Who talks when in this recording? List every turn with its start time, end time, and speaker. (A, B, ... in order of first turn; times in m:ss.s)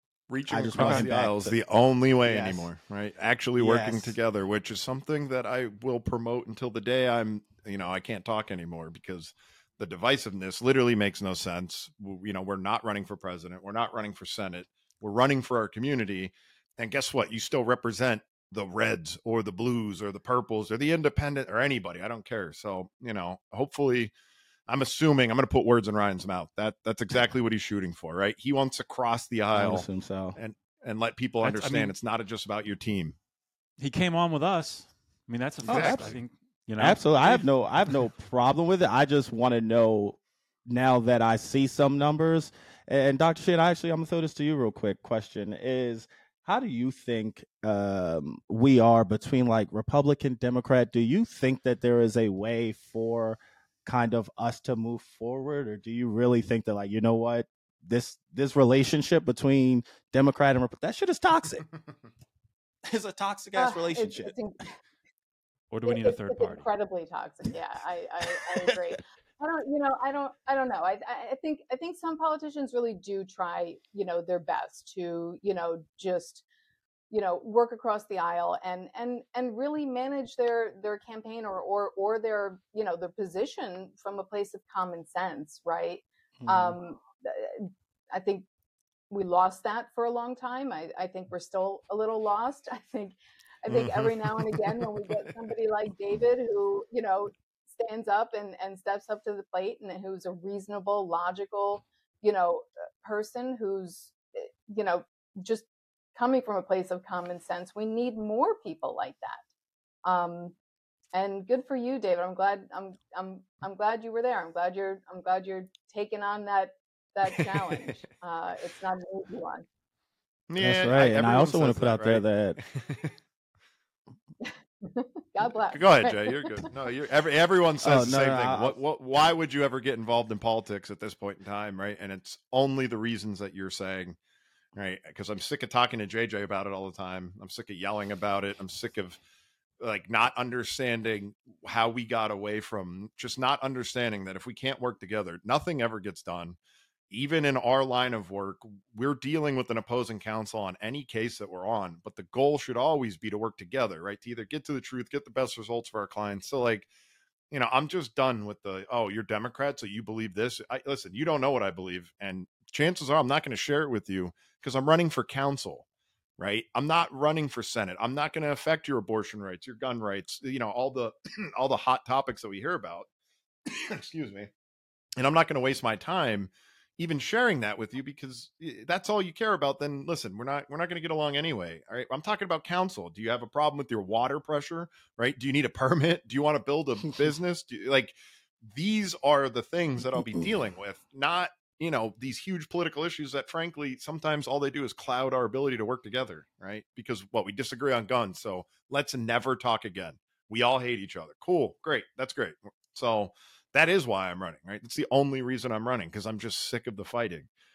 0:00.3-0:24.1 A
0:00.5-0:01.6 B
0:00.8-0:01.1 C
0:02.2-0:02.7 B
0:03.6-0:04.2 B
0:24.7-0:33.2 A
0:29.6-0:30.4 B
0:31.4-0:32.0 C
0:33.8-0:37.5 C
0:35.7-0:36.2 B
0:35.7-0:36.2 A
0:36.8-1:01.6 B
1:02.9-1:04.3 B
1:03.6-1:04.7 D
1:05.7-1:06.7 C
1:05.8-1:16.4 D
1:17.1-1:28.4 D
1:26.4-1:26.8 B
1:29.1-1:49.4 D
1:33.7-1:34.8 A
1:50.0-1:50.6 D
1:51.1-1:59.6 D
2:00.5-2:03.2 A
2:00.6-2:02.6 B
2:04.4-2:06.7 D
2:05.7-2:14.2 A
2:07.8-2:08.8 B
2:14.8-2:19.2 A
2:19.8-2:26.6 A
2:27.1-2:36.9 A
2:37.5-2:45.8 A
2:46.4-2:53.1 A
2:53.7-2:54.5 A
2:55.2-3:27.5 A